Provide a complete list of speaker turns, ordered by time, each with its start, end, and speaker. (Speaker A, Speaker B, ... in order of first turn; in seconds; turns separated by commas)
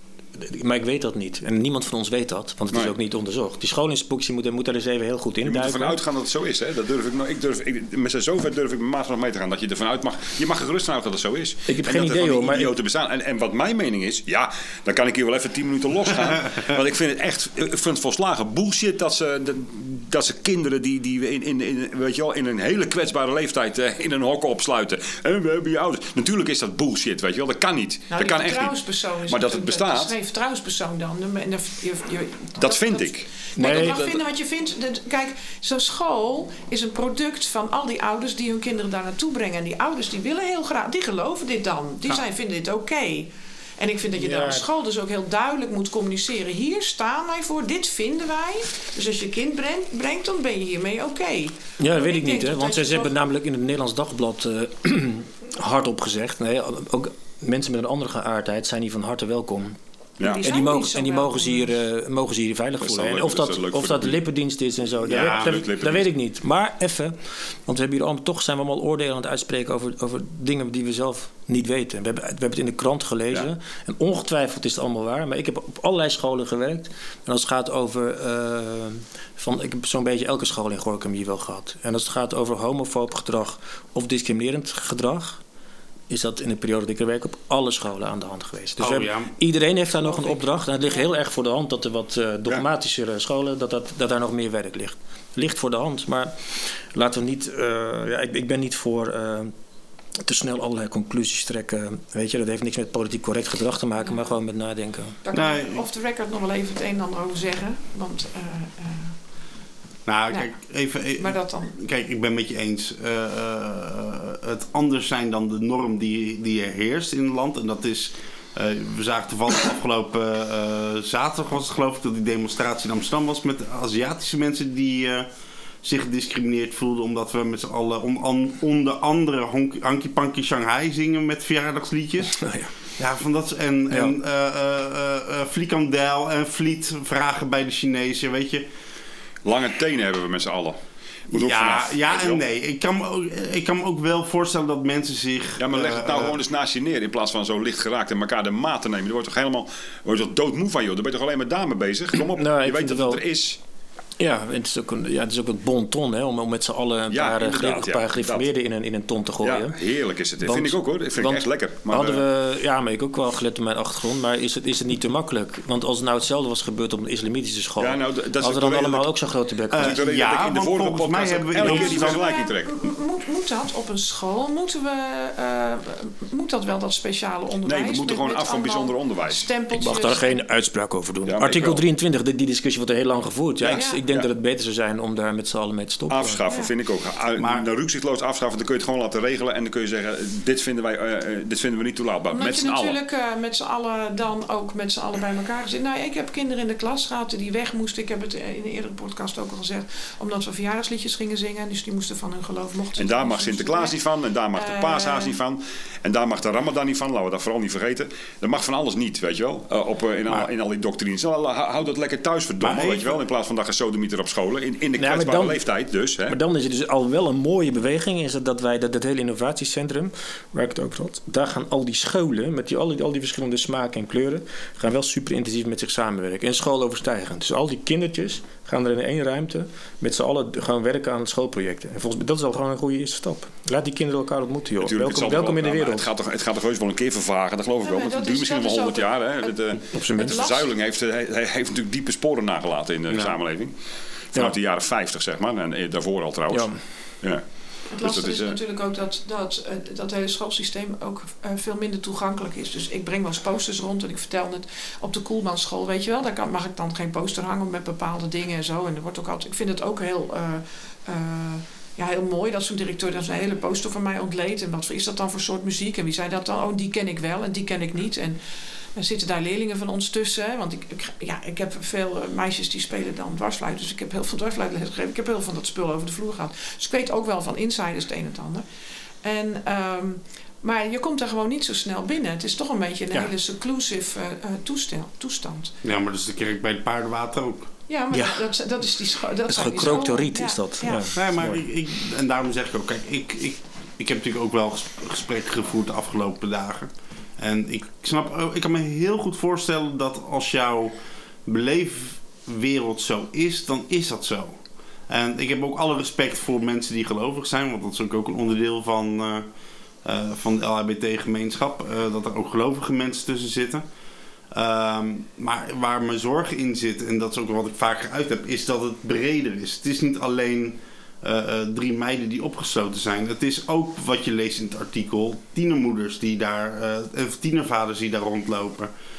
Speaker A: 0.3-6.0, Speaker B: 5.4-30.1, Speaker A: 11.7-12.7, Speaker C: 28.1-53.1, Speaker B: 32.6-34.2, Speaker A: 33.6-34.0, Speaker A: 44.2-44.7, Speaker A: 51.8-59.8, Speaker C: 60.2-61.8, Speaker A: 60.3-85.4, Speaker B: 62.8-64.2, Speaker B: 65.1-66.1, Speaker D: 65.1-65.5, Speaker A: 86.1-99.5, Speaker D: 88.8-89.3, Speaker C: 90.0-90.4, Speaker A: 100.2-105.2, Speaker C: 105.2-109.1, Speaker D: 105.3-105.8, Speaker D: 110.1-125.3, Speaker C: 111.2-111.8, Speaker D: 125.8-132.4, Speaker A: 132.3-132.7, Speaker D: 133.0-138.7, Speaker A: 133.9-134.2, Speaker B: 139.4-140.8, Speaker B: 141.3-142.4, Speaker D: 141.3-146.3, Speaker B: 145.6-153.6, Speaker A: 152.3-153.2, Speaker A: 154.2-159.8, Speaker B: 157.1-158.5, Speaker B: 159.4-162.2, Speaker A: 160.4-170.0, Speaker B: 167.8-169.1, Speaker D: 169.7-172.2, Speaker B: 169.8-172.9, Speaker C: 171.6-180.4, Speaker B: 177.7-179.5, Speaker A: 179.8-186.4, Speaker B: 181.3-181.8, Speaker B: 183.6-184.3, Speaker C: 183.7-184.0, Speaker B: 186.1-193.0, Speaker D: 187.4-187.7, Speaker C: 192.3-204.0, Speaker B: 203.0-216.4, Speaker C: 204.6-205.4, Speaker D: 212.6-213.2, Speaker A: 215.0-215.6, Speaker A: 216.3-236.1, Speaker B: 234.8-243.7, Speaker C: 237.8-239.6, Speaker A: 239.9-240.4, Speaker C: 240.1-240.7, Speaker A: 243.1-243.3, Speaker B: 244.3-248.6, Speaker A: 246.5-246.8, Speaker C: 247.9-268.4, Speaker C: 269.0-278.6, Speaker C: 279.2-285.7, Speaker D: 285.8-287.6, Speaker C: 287.9-291.1, Speaker A: 288.1-288.5, Speaker A: 289.5-291.6, Speaker D: 291.1-300.9, Speaker D: 301.4-309.5, Speaker D: 310.0-313.8, Speaker D: 314.5-328.9